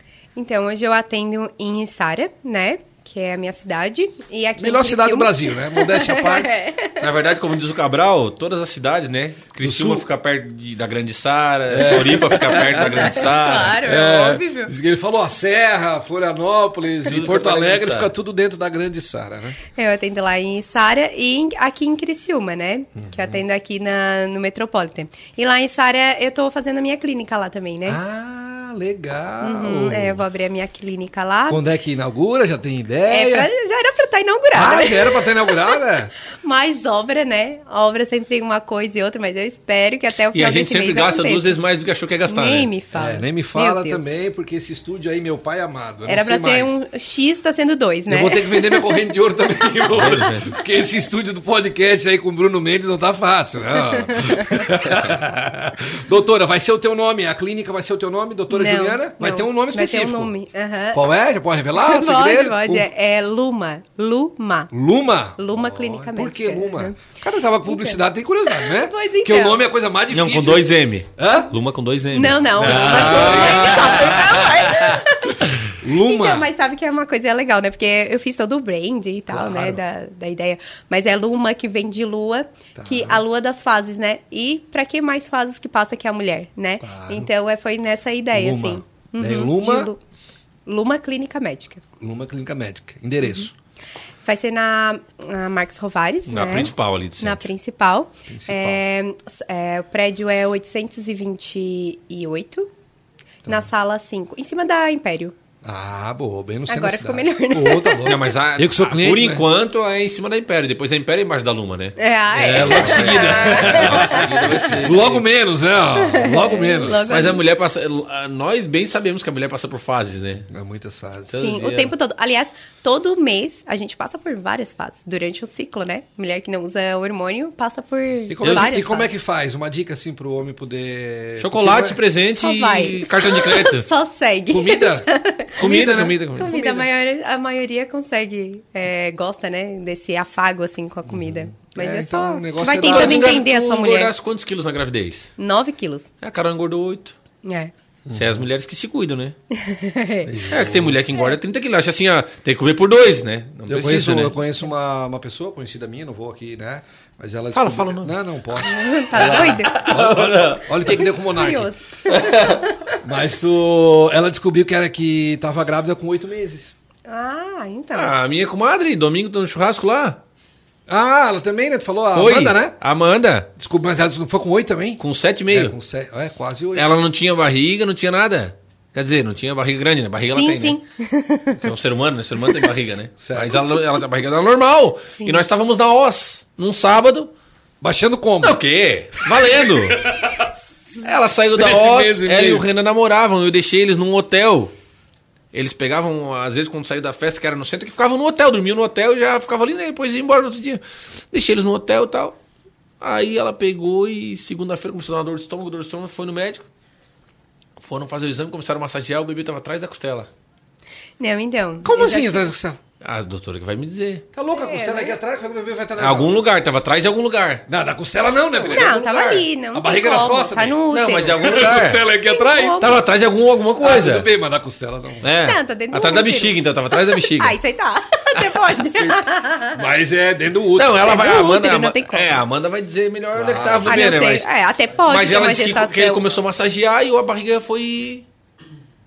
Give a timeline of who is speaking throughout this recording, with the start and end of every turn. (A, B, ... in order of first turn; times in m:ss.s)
0:00.4-0:07.1 A
0:04.6-0:06.6 B
0:07.0-0:13.8 C
0:09.6-0:10.1 B
0:11.7-0:13.3 B
0:12.5-0:14.7 A
0:13.8-0:19.6 B
0:17.0-0:18.1 C
0:19.8-0:28.0 A
0:23.0-0:23.4 B
0:27.9-0:30.2 B
0:29.4-0:31.6 A
0:31.5-0:33.5 B
0:33.1-0:35.8 A
0:34.5-0:36.1 B
0:36.3-0:41.6 A
0:40.3-0:42.7 C
0:42.3-0:44.1 A
0:42.9-0:46.8 B
0:46.1-0:49.0 A
0:48.1-1:00.3 B
0:49.9-0:50.5 C
0:54.1-0:54.6 A
0:58.5-1:01.1 A
1:00.9-1:02.9 B
1:01.8-1:04.7 A
1:04.7-1:11.5 B
1:05.4-1:09.6 A
1:10.1-1:15.0 C
1:12.1-1:30.0 A
1:12.6-1:14.7 B
1:15.4-1:16.5 B
1:19.3-1:19.8 B
1:22.8-1:23.2 B
1:26.8-1:27.3 B
1:28.3-1:29.9 B
1:30.7-1:31.8 A
1:32.0-1:33.5 B
1:34.2-1:42.7 A
1:36.3-1:37.5 C
1:38.3-1:38.8 B
1:43.5-1:45.3 A
1:45.6-1:49.4 B
1:46.7-1:48.2 A
1:48.0-1:55.3 C
1:52.0-1:54.8 A
1:52.3-1:57.1 B
1:56.0-1:57.4 A
1:57.0-2:00.5 C
2:00.5-2:01.4 B
2:01.3-2:01.9 C
2:01.4-2:09.1 A
2:08.3-2:12.0 B
2:08.4-2:08.7 C
2:11.4-2:13.9 C
2:12.3-2:24.1 A
2:14.5-2:16.9 B
2:15.6-2:16.6 C
2:21.1-2:23.3 B
2:22.8-2:25.3 C
2:25.4-2:26.1 A
2:26.2-2:27.2 C
2:27.4-2:27.7 A
2:28.1-2:28.4 B
2:28.1-2:29.4 C
2:29.5-2:30.3 A
2:30.2-2:31.0 B
2:30.5-2:34.3 C
2:33.7-2:41.7 B
2:37.5-2:38.1 C
2:38.6-2:39.8 A
2:39.2-2:40.8 C
2:40.8-2:42.8 A
2:42.1-2:42.7 C
2:43.0-2:46.7 B
2:47.1-2:48.1 A
2:47.9-2:50.2 C
2:50.9-2:52.8 B
2:52.1-2:53.5 C
2:53.6-2:56.9 B
2:55.0-2:55.8 C
2:56.8-3:00.8 C
3:00.3-3:01.7 A
3:01.6-3:07.3 C
3:03.2-3:03.8 B
3:05.2-3:05.4 A
3:07.8-3:08.6 B
3:08.4-3:10.1 C
3:09.2-3:10.5 B
3:11.0-3:14.7 C
3:11.5-3:12.7 B
3:15.5-3:22.4 C
3:23.0-3:26.7 C
3:27.8-3:30.3 C
3:31.2-3:32.5 A
3:31.8-3:32.8 B
3:33.0-3:34.2 C
3:34.3-3:36.4 B
3:34.5-3:35.2 A
3:36.0-3:37.6 C
3:37.7-3:39.0 B
3:38.6-3:39.5 C
3:38.7-3:41.6 A
3:39.7-3:40.8 B
3:40.9-3:42.0 C
3:41.3-3:43.0 B
3:42.2-3:43.0 A
3:42.8-3:44.3 C
3:43.8-3:45.2 B
3:45.2-3:47.6 C
3:45.4-3:49.8 A
3:48.4-3:49.2 C
3:49.7-3:51.1 B
3:50.8-3:54.5 C
3:51.0-3:52.4 A
3:53.3-3:54.0 B
3:53.9-3:56.2 A
3:55.1-3:58.3 C